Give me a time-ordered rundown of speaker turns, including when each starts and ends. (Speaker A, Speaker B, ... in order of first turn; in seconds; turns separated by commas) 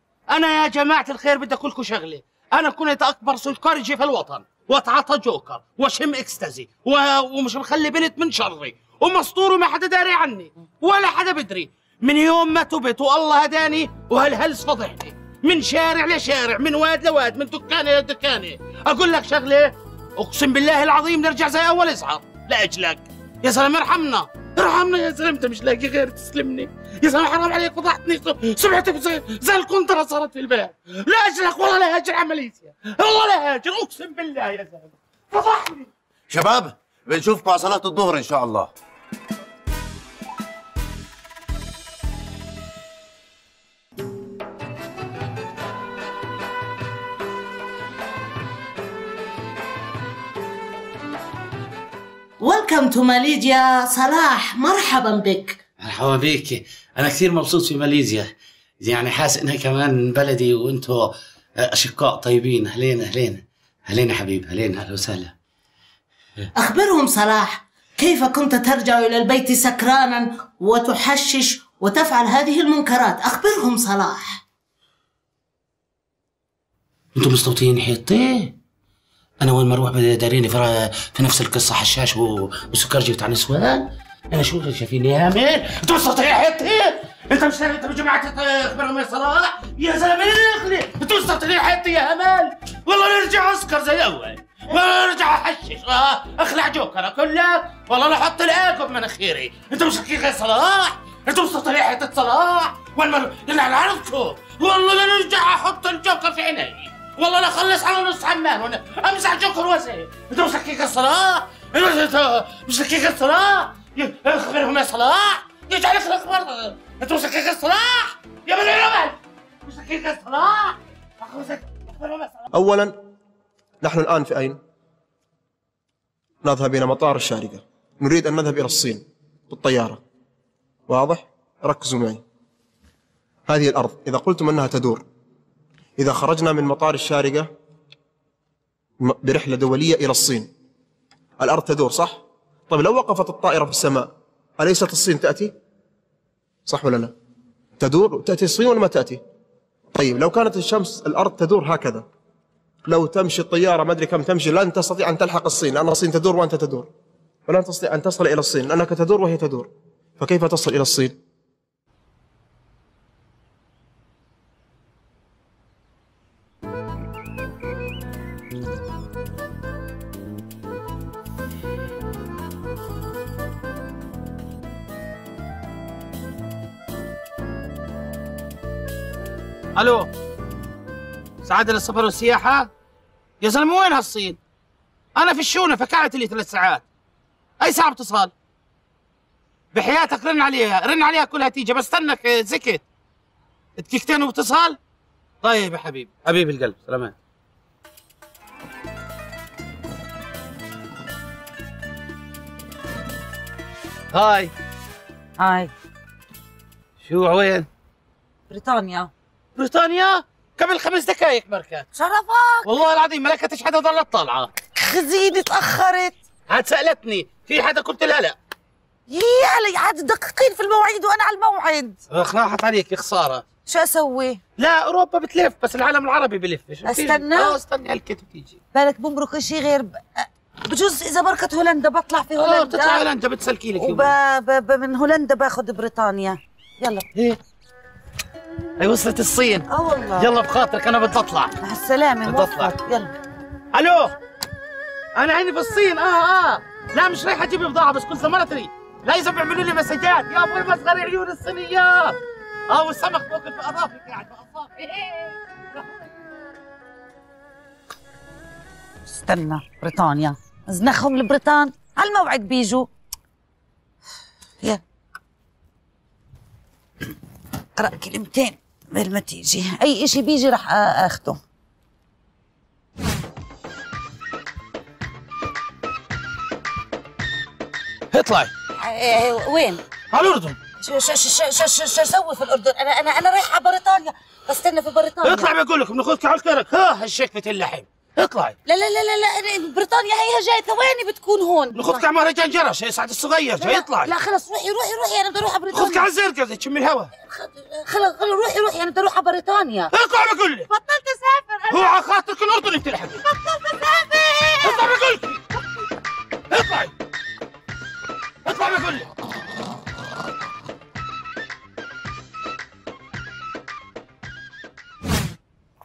Speaker A: 0.3-35.9, Speaker B: 36.3-38.7, Speaker C: 52.4-55.6, Speaker A: 55.8-65.3, Speaker C: 66.6-74.4, Speaker A: 77.2-78.5, Speaker A: 79.4-122.5, Speaker D: 122.5-123.0, Speaker D: 123.8-124.6, Speaker D: 126.4-130.0, Speaker D: 130.9-132.2, Speaker D: 133.5-135.0, Speaker D: 136.0-137.5, Speaker D: 139.0-140.5, Speaker D: 141.4-145.5, Speaker D: 146.7-147.1, Speaker D: 147.8-149.2, Speaker D: 149.9-152.1, Speaker D: 152.9-156.9, Speaker D: 157.5-161.2, Speaker A: 179.8-180.1, Speaker A: 181.4-182.7, Speaker A: 183.4-184.4, Speaker A: 185.2-186.8, Speaker A: 187.6-188.3, Speaker A: 189.7-192.8, Speaker A: 193.8-194.8, Speaker A: 195.4-197.2, Speaker A: 204.1-204.5, Speaker E: 205.4-205.7, Speaker A: 207.0-207.7, Speaker E: 208.5-209.1, Speaker A: 209.6-211.9, Speaker E: 211.9-212.7, Speaker A: 212.7-214.5, Speaker E: 214.8-216.2, Speaker A: 216.5-218.4, Speaker E: 219.1-222.0, Speaker A: 222.1-223.4, Speaker E: 223.7-224.4, Speaker A: 224.6-228.6, Speaker E: 226.8-227.6, Speaker E: 228.7-233.1, Speaker A: 232.4-234.1, Speaker E: 233.8-237.1, Speaker A: 237.1-237.4, Speaker A: 238.8-239.7, Speaker E: 239.7-240.3, Speaker A: 240.2-241.6, Speaker E: 241.6-243.2, Speaker A: 242.3-242.7, Speaker A: 243.7-244.2, Speaker A: 245.2-252.2, Speaker A: 252.7-256.1, Speaker E: 259.1-262.9, Speaker E: 267.8-271.4, Speaker A: 278.1-278.5, Speaker E: 278.8-279.8, Speaker A: 280.1-280.6, Speaker E: 280.8-285.5, Speaker A: 285.2-288.6, Speaker E: 288.6-292.1, Speaker A: 291.8-294.1, Speaker E: 293.6-296.1, Speaker A: 295.7-297.1, Speaker E: 297.2-299.9, Speaker A: 299.9-300.7, Speaker E: 300.7-302.0, Speaker A: 301.7-303.2, Speaker E: 303.2-304.9, Speaker A: 304.6-305.4, Speaker A: 306.5-306.9, Speaker A: 308.4-309.1